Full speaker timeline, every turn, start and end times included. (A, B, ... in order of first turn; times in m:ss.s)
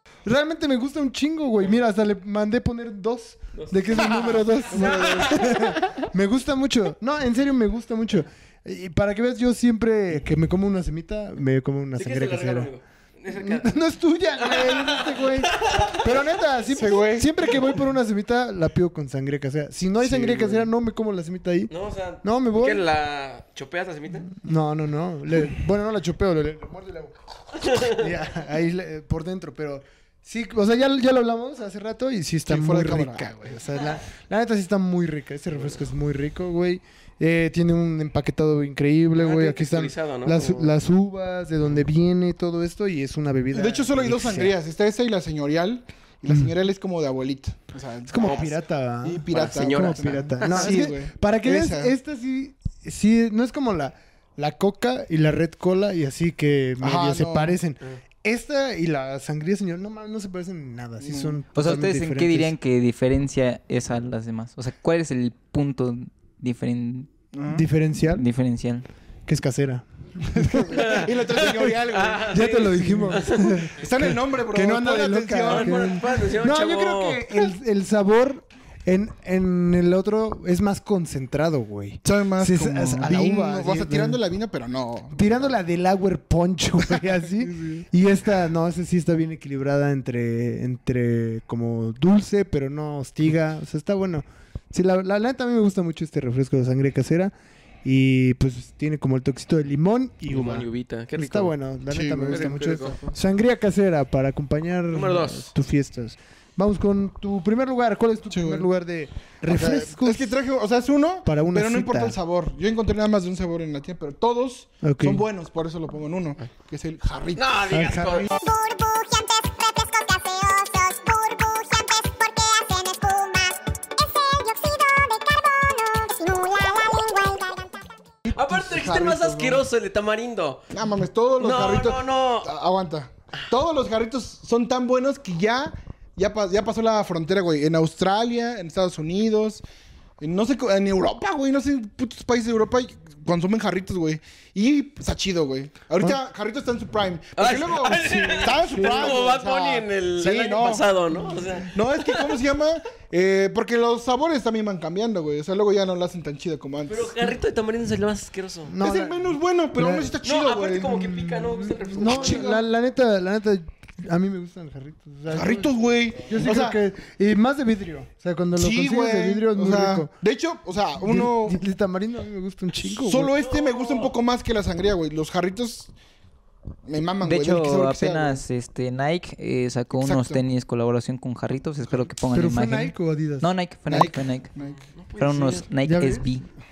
0:00.2-0:12.7 A
0:03.5-0:05.8 B
0:04.8-0:05.3 C
0:12.0-0:13.7 B
0:13.3-0:21.7 A
0:14.4-0:16.0 B
0:16.7-0:17.7 C
0:20.0-0:20.7 C
0:21.7-0:24.3 B
0:22.2-0:22.8 A
0:24.3-0:44.6 A
0:27.6-0:28.0 B
0:32.5-0:33.3 C
0:39.2-0:40.7 B
0:43.5-0:51.9 C
0:48.1-1:02.5 A
0:48.2-0:48.5 B
0:49.3-0:50.8 B
0:56.8-0:57.6 C
1:01.0-1:01.4 C
1:01.5-1:07.1 D
1:07.3-1:07.6 C
1:07.5-1:08.2 A
1:08.1-1:08.8 D
1:09.3-1:11.1 A
1:10.3-1:13.1 C
1:10.7-1:13.6 B
1:12.3-1:24.2 A
1:13.7-1:15.9 C
1:15.4-1:17.5 B
1:22.0-1:25.4 C
1:25.1-1:37.3 A
1:27.4-1:27.8 C
1:37.8-1:50.4 A
1:40.3-1:41.5 B
1:41.9-1:42.6 C
1:42.2-1:43.1 B
1:44.9-1:45.5 B
1:48.3-1:48.6 C
1:49.5-1:57.6 C
1:51.2-1:52.2 A
1:54.8-1:55.3 A
1:57.4-1:58.3 B
1:57.7-1:58.3 A
1:58.3-2:07.8 E
2:08.2-2:08.7 A
2:08.3-2:10.7 B
2:08.7-2:09.6 C
2:10.7-2:19.6 C
2:11.4-2:12.5 B
2:20.2-2:30.9 C
2:27.4-2:32.2 B
2:27.9-2:29.2 A
2:31.6-2:37.4 C
2:36.9-2:38.7 B
2:38.7-2:40.2 A
2:38.8-2:41.1 C
2:40.2-2:42.5 B
2:40.9-2:50.1 A
2:42.0-2:42.6 C
2:45.3-2:46.8 C
2:48.6-2:51.6 C
2:51.0-2:53.3 A
2:53.0-2:55.9 C
2:53.3-2:54.1 B
2:56.8-2:58.4 C
2:57.2-3:04.5 D
3:00.0-3:00.4 C
3:02.3-3:03.5 A
3:03.9-3:04.8 C
3:04.6-3:05.6 B
3:05.2-3:06.4 D
3:05.8-3:06.4 A